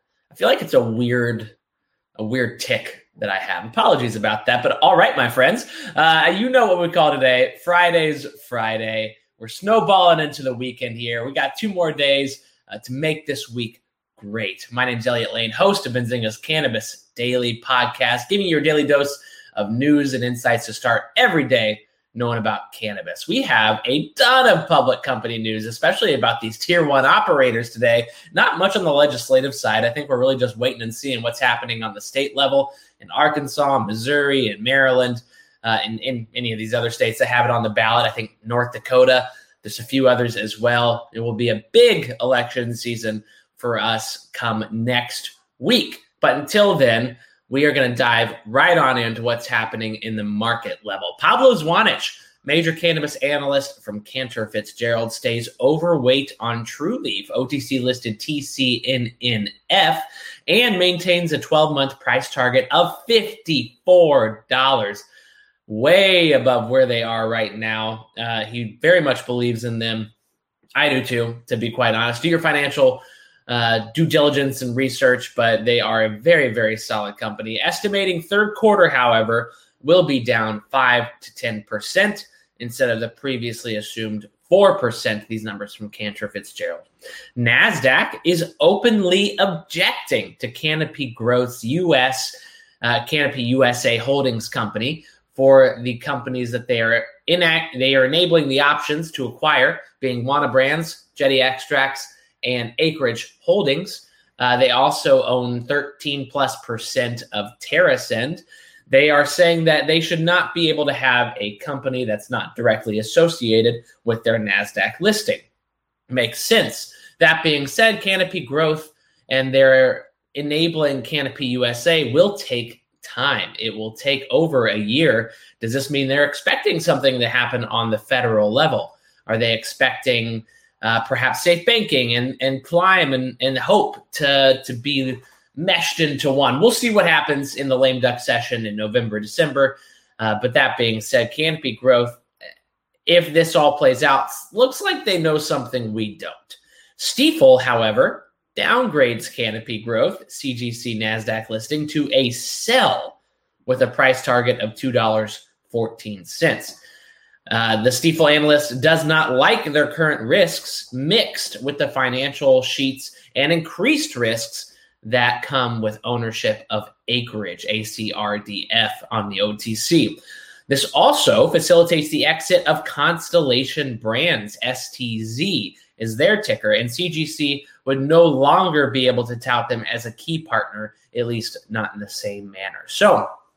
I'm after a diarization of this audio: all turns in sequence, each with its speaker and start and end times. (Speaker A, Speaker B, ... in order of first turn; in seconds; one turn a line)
Speaker A: 0.3-1.5
Speaker A: 2.2-65.0
Speaker A: 65.7-70.1
Speaker A: 70.8-115.4
Speaker A: 116.1-142.2
Speaker A: 143.1-156.8
Speaker A: 157.5-183.3